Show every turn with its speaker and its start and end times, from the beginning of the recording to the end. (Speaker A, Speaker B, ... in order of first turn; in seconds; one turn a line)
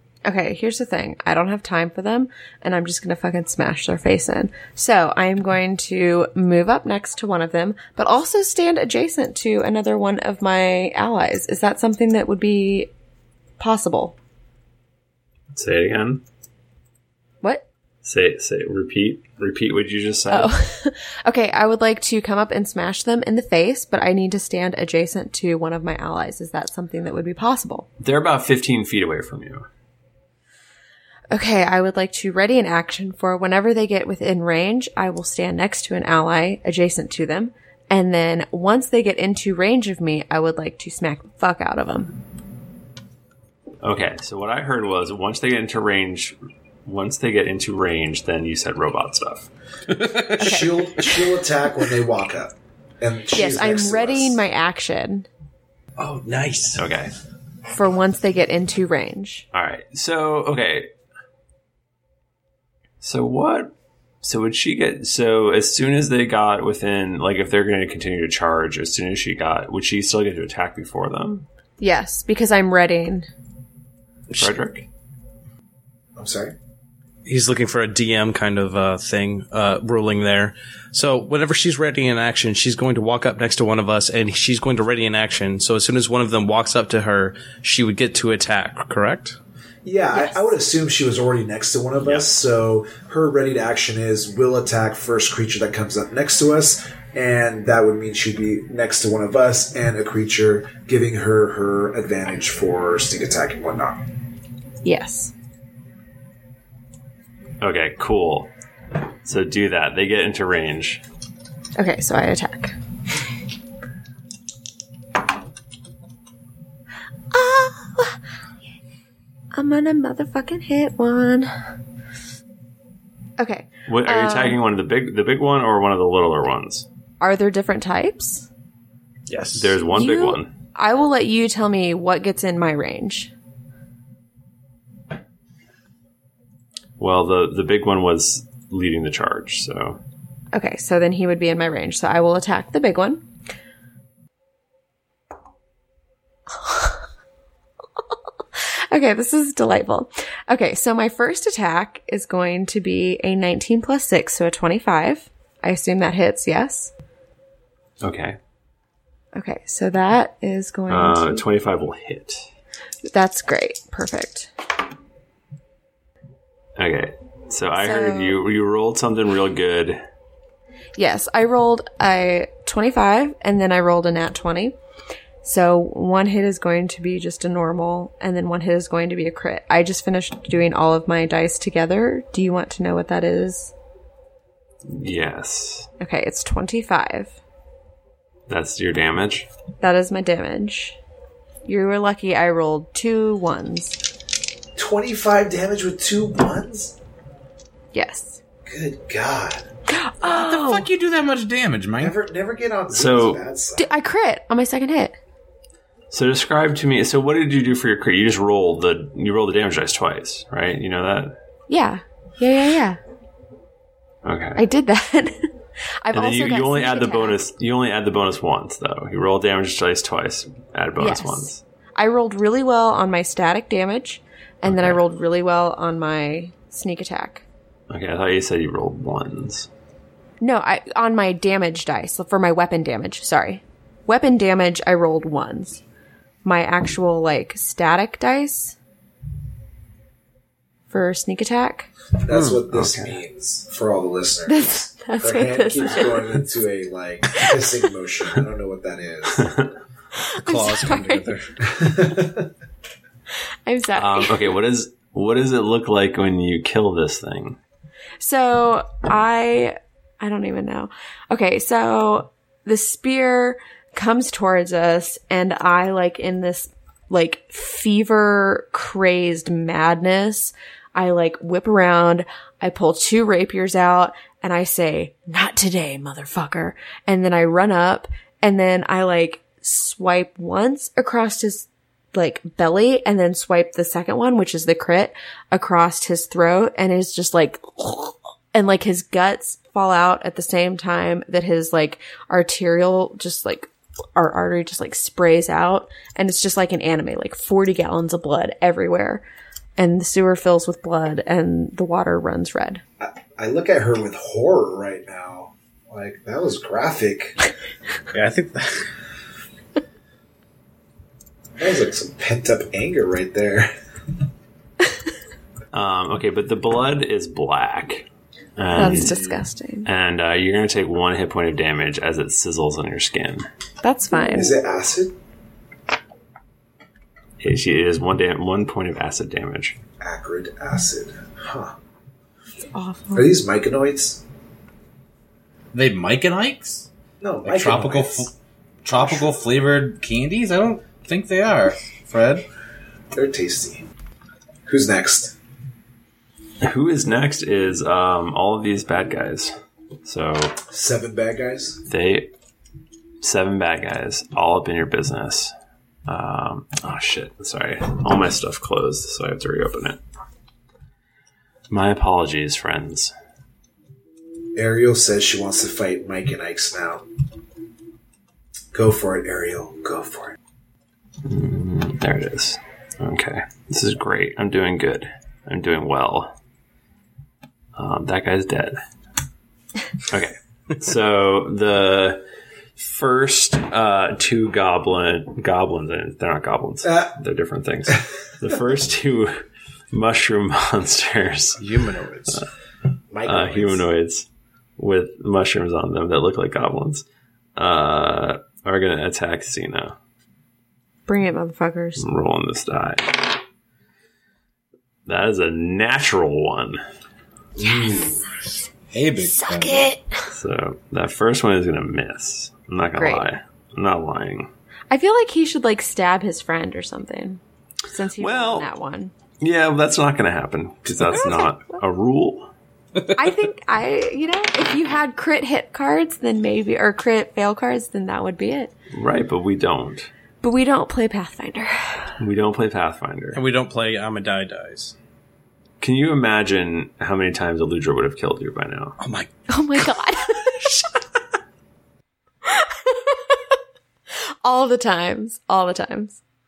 Speaker A: 0.2-12.9
Speaker A: 13.6-14.2
Speaker B: 15.5-16.2
Speaker B: 18.0-20.5
Speaker A: 20.3-27.9
Speaker B: 28.0-29.6
Speaker A: 31.3-42.2
Speaker B: 43.8-49.5
Speaker C: 49.9-50.4
Speaker D: 50.3-54.4
Speaker A: 50.4-51.3
Speaker A: 53.3-55.3
Speaker C: 56.0-56.8
Speaker B: 56.8-57.1
Speaker A: 57.7-59.5
Speaker B: 59.5-60.9
Speaker B: 63.0-71.5
Speaker A: 71.8-73.3
Speaker B: 74.3-74.9
Speaker D: 76.2-76.5
Speaker C: 77.2-89.4
Speaker D: 89.8-104.0
Speaker B: 92.0-92.3
Speaker A: 104.8-105.3
Speaker B: 107.6-108.5
Speaker B: 109.2-111.0
Speaker A: 111.8-112.8
Speaker A: 117.3-118.2
Speaker A: 119.5-121.5
Speaker A: 123.4-124.6
Speaker B: 123.9-126.9
Speaker A: 127.2-128.5
Speaker C: 129.3-129.8
Speaker B: 129.6-130.5
Speaker A: 129.9-133.3
Speaker B: 137.0-140.0
Speaker A: 140.5-143.2
Speaker A: 146.5-147.0
Speaker A: 148.6-156.9
Speaker B: 158.0-158.4
Speaker A: 159.3-161.4
Speaker B: 160.9-162.5
Speaker A: 163.1-164.5
Speaker B: 166.8-170.0
Speaker A: 167.8-168.4
Speaker A: 171.0-174.8
Speaker A: 175.4-183.7
Speaker B: 184.8-185.9
Speaker A: 186.0-187.4
Speaker B: 188.5-189.5
Speaker A: 189.8-191.0
Speaker A: 191.7-194.0
Speaker D: 194.8-197.0
Speaker A: 197.9-198.4
Speaker D: 198.7-199.6
Speaker A: 199.9-200.9
Speaker E: 200.2-202.2
Speaker D: 202.0-203.9
Speaker B: 202.9-203.4
Speaker A: 203.8-205.2
Speaker B: 206.1-211.4
Speaker A: 211.7-213.0
Speaker B: 214.2-214.6
Speaker A: 214.6-215.5
Speaker A: 216.0-217.4
Speaker B: 216.1-221.6
Speaker A: 221.0-227.4
Speaker B: 224.7-225.0
Speaker B: 227.9-229.7
Speaker A: 230.4-235.8
Speaker A: 236.4-238.8
Speaker A: 240.9-241.9
Speaker D: 242.2-249.6
Speaker B: 242.7-243.2
Speaker A: 244.5-246.3
Speaker B: 249.4-249.7
Speaker A: 250.2-251.3
Speaker C: 250.5-251.5
Speaker D: 251.6-252.5
Speaker A: 253.7-254.4
Speaker B: 253.9-257.6
Speaker A: 258.2-299.2
Speaker A: 299.8-302.8
Speaker D: 303.0-307.4
Speaker C: 308.1-308.9
Speaker D: 311.6-313.7
Speaker B: 315.7-319.3
Speaker A: 318.7-319.9
Speaker B: 319.9-323.5
Speaker A: 323.8-324.6
Speaker D: 324.2-325.1
Speaker B: 327.4-329.8
Speaker D: 330.0-331.7
Speaker A: 332.7-333.3
Speaker D: 333.1-334.2
Speaker E: 335.7-336.9
Speaker D: 337.2-338.3
Speaker E: 337.4-338.3
Speaker E: 338.8-342.4
Speaker D: 338.9-339.3
Speaker D: 343.1-343.9
Speaker D: 344.7-345.4
Speaker B: 346.6-349.5
Speaker B: 350.0-350.6
Speaker D: 350.7-351.8
Speaker B: 351.9-352.3
Speaker B: 353.2-355.5
Speaker B: 356.1-360.0
Speaker B: 361.7-363.1
Speaker D: 364.6-367.1
Speaker D: 368.7-370.4
Speaker B: 371.2-376.3
Speaker B: 377.8-378.8
Speaker B: 380.0-382.2
Speaker B: 382.8-391.6
Speaker C: 391.6-392.4
Speaker D: 393.1-393.9
Speaker B: 393.2-397.1
Speaker B: 397.6-399.9
Speaker A: 401.1-402.1
Speaker B: 402.0-403.4
Speaker B: 405.1-406.8
Speaker E: 407.6-407.9
Speaker A: 407.8-408.2
Speaker E: 408.9-409.9
Speaker A: 409.4-410.2
Speaker B: 410.3-414.5
Speaker A: 413.0-413.3
Speaker A: 414.9-419.1
Speaker B: 418.2-418.7
Speaker B: 419.4-422.5
Speaker A: 421.1-421.8
Speaker A: 423.1-428.7
Speaker B: 428.9-430.1
Speaker A: 430.4-432.1
Speaker B: 432.2-433.4
Speaker C: 433.3-434.9
Speaker B: 435.8-439.0
Speaker C: 439.0-439.9
Speaker A: 439.5-440.9
Speaker A: 442.4-443.4
Speaker A: 444.4-446.2